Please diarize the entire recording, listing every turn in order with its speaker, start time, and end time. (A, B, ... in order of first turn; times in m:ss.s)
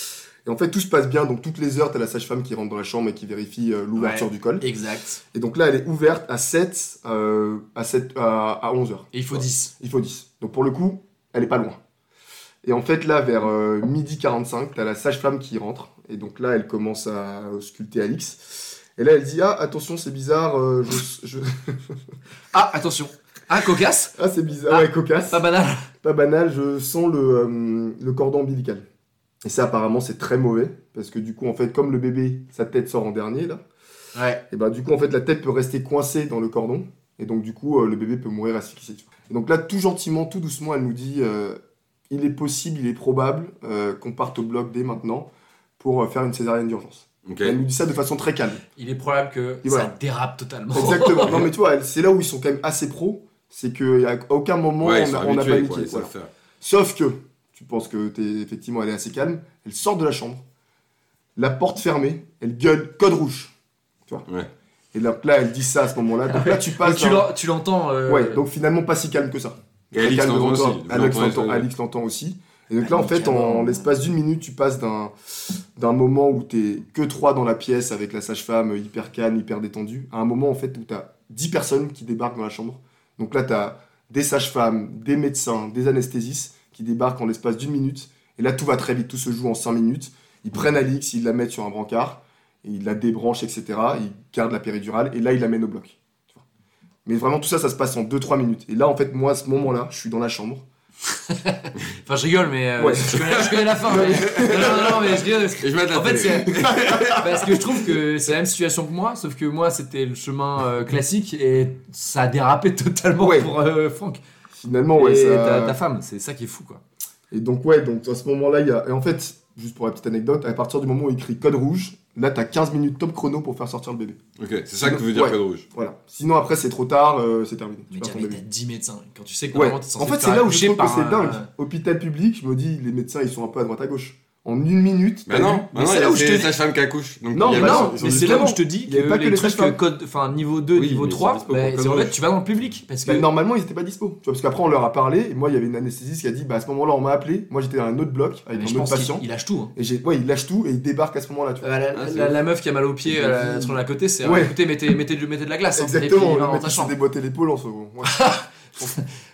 0:00.4-0:04.6 A
0:03.9-0:05.2 B
0:05.3-0:11.8 A
0:09.1-0:09.7 B
0:12.6-0:21.9 A
0:22.5-0:24.1 B
0:24.2-0:25.4 A
0:24.7-0:25.9 B
0:26.0-0:28.8 A
0:29.4-0:33.6 A
0:34.1-0:34.4 B
0:34.5-0:41.6 A
0:42.1-0:45.3 A
0:45.8-0:48.6 A
0:47.2-0:47.6 C
0:48.7-0:51.5 B
0:49.6-0:49.9 A
0:50.7-1:00.4 A
0:54.8-0:56.3 C
1:01.4-1:03.5 A
1:04.9-1:07.3 A
1:06.2-1:08.4 B
1:08.1-1:36.4 A
1:09.9-1:11.7 C
1:12.8-1:13.9 B
1:37.0-1:40.6 A
1:41.3-1:54.2 B
1:42.8-1:43.1 A
1:43.4-1:47.8 C
1:43.8-1:45.1 A
1:46.4-1:47.2 A
1:53.2-1:53.5 A
1:54.5-1:55.8 A
1:54.9-1:56.8 B
1:57.3-2:04.2 A
2:04.4-2:05.6 C
2:04.8-2:08.4 A
2:07.9-2:11.5 B
2:09.5-2:15.7 A
2:15.2-2:18.4 C
2:15.7-2:16.5 B
2:17.3-2:19.8 A
2:17.5-2:23.3 B
2:20.7-2:22.2 C
2:23.0-2:29.2 A
2:28.5-2:29.7 B
2:29.7-2:32.2 A
2:31.6-2:36.9 B
2:31.9-2:32.3 C
2:33.0-2:34.5 A
2:35.8-2:39.0 A
2:38.0-2:39.0 B